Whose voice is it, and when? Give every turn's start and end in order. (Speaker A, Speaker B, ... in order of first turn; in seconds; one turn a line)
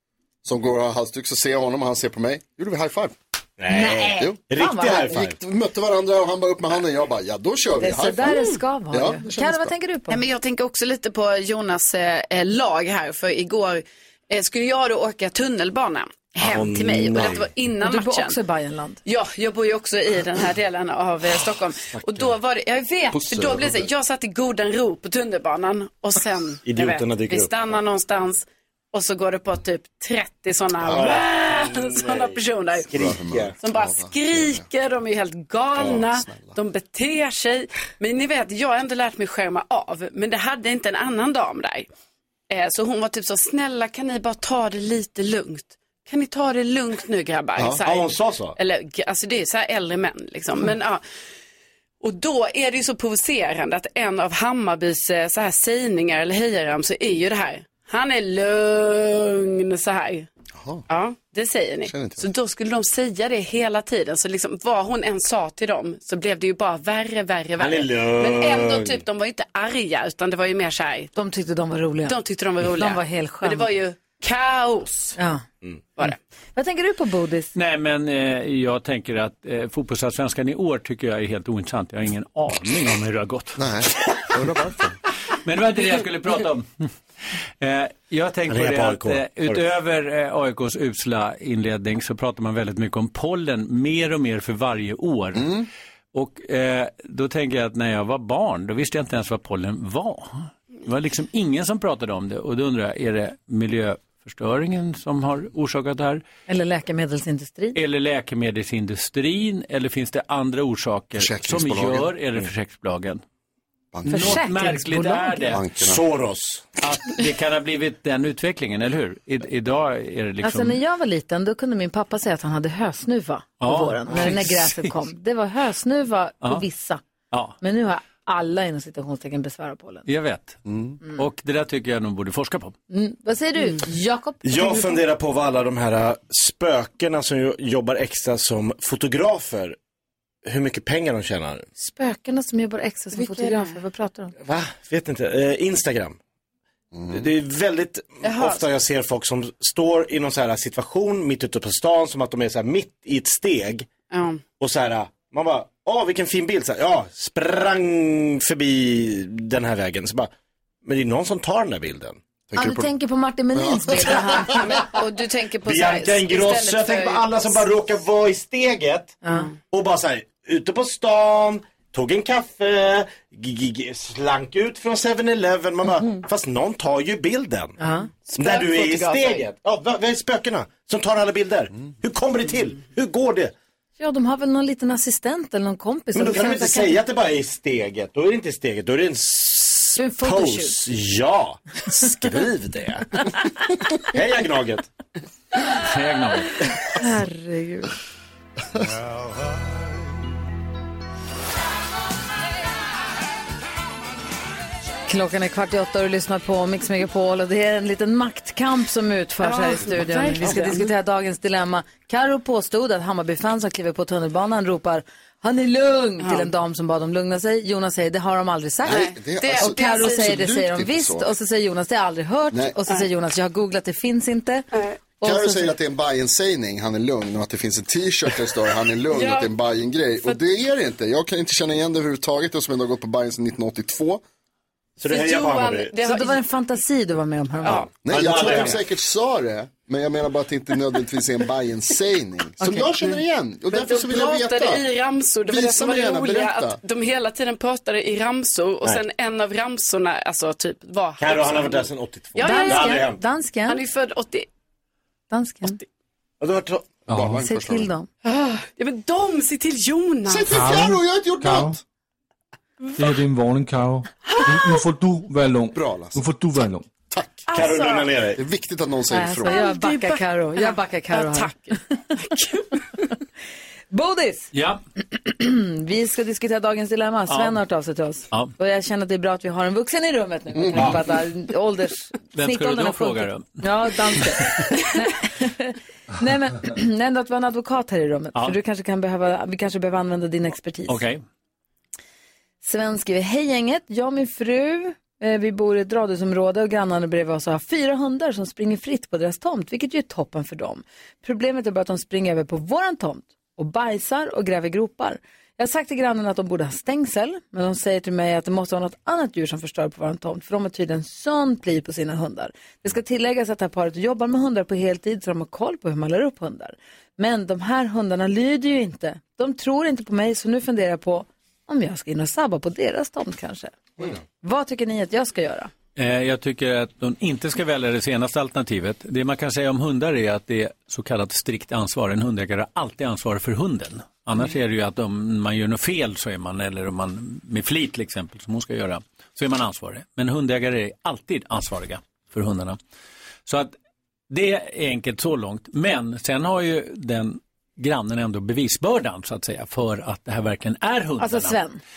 Speaker A: 0.4-3.1
Speaker B: 3.6-5.3
Speaker C: 3.7-5.2
Speaker A: 5.1-9.7
Speaker C: 7.8-10.2
Speaker D: 10.1-18.4
Speaker B: 16.4-17.5
Speaker C: 17.8-19.0
Speaker D: 19.0-32.9
Speaker B: 21.9-22.3
Speaker A: 23.1-23.9
Speaker B: 26.6-27.5
Speaker B: 30.9-33.5
Speaker A: 32.9-34.6
Speaker D: 33.6-41.9
Speaker B: 35.8-36.0
Speaker A: 36.0-36.5
Speaker D: 42.5-51.0
Speaker B: 47.8-48.6
Speaker D: 52.0-60.3
Speaker A: 60.5-60.8
Speaker D: 60.9-71.1
Speaker A: 61.8-62.2
Speaker B: 67.6-69.0
Speaker C: 71.1-73.7
Speaker D: 72.0-75.2
Speaker C: 75.2-75.4
Speaker C: 76.0-77.5
Speaker E: 77.5-83.8
Speaker A: 83.6-85.0
Speaker E: 85.4-86.9
Speaker E: 87.6-106.2
Speaker B: 88.5-89.6
Speaker A: 95.4-95.6
Speaker C: 106.5-107.8
Speaker E: 107.7-113.2
Speaker A: 111.2-112.1
Speaker A: 113.9-114.4
Speaker C: 114.1-115.6
Speaker E: 114.1-115.7
Speaker A: 115.5-116.0
Speaker B: 115.7-116.7
Speaker E: 116.8-120.8
Speaker C: 120.4-127.0
Speaker E: 123.6-124.9
Speaker E: 127.3-127.6
Speaker C: 127.6-130.0
Speaker E: 130.1-132.7
Speaker C: 132.9-135.0
Speaker B: 134.4-139.8
Speaker B: 140.4-141.7
Speaker C: 141.8-144.3
Speaker D: 143.1-143.8
Speaker B: 144.4-146.2
Speaker A: 146.9-147.2
Speaker B: 147.1-153.9
Speaker D: 148.2-148.6
Speaker D: 154.1-154.4
Speaker B: 154.6-160.3
Speaker B: 160.8-162.2
Speaker A: 162.5-162.9
Speaker C: 162.5-164.7
Speaker A: 163.5-164.1
Speaker D: 164.4-167.6
Speaker B: 165.6-183.5
Speaker C: 177.8-178.1
Speaker D: 178.4-179.4
Speaker C: 184.0-187.0
Speaker B: 186.1-193.4
Speaker C: 189.9-190.7
Speaker B: 193.9-194.9
Speaker E: 195.7-196.7
Speaker C: 196.9-197.9
Speaker C: 205.1-224.7
Speaker D: 209.4-210.9
Speaker D: 216.2-216.5
Speaker A: 218.8-221.3
Speaker D: 218.8-220.5
Speaker D: 224.7-225.0
Speaker C: 225.2-225.7
Speaker A: 225.2-234.2
Speaker D: 229.1-229.5
Speaker B: 235.0-235.9
Speaker D: 235.1-236.4
Speaker C: 236.0-237.8
Speaker D: 237.6-237.9
Speaker B: 238.0-238.8
Speaker A: 238.0-244.8
Speaker C: 242.6-243.1
Speaker D: 243.7-253.1
Speaker A: 245.4-246.8
Speaker B: 251.2-253.2
Speaker C: 252.4-253.8
Speaker D: 253.7-254.5
Speaker C: 255.3-255.8
Speaker B: 256.4-257.0
Speaker F: 257.1-257.4
Speaker A: 257.1-257.9
Speaker C: 257.4-258.1
Speaker D: 258.2-260.7
Speaker A: 260.3-261.8
Speaker F: 260.5-261.8
Speaker F: 262.9-266.8
Speaker A: 265.7-266.2
Speaker A: 267.1-267.6
Speaker D: 267.5-268.1
Speaker B: 267.5-268.4
Speaker A: 268.4-269.6
Speaker C: 269.1-271.5
Speaker D: 269.4-272.9
Speaker C: 273.9-274.5
Speaker E: 274.5-274.8
Speaker C: 275.2-291.0
Speaker E: 277.3-277.6
Speaker E: 282.3-284.6
Speaker E: 290.9-291.2
Speaker C: 292.6-325.7
Speaker E: 325.9-342.8
Speaker E: 343.4-343.7
Speaker E: 344.3-351.6
Speaker C: 351.2-351.8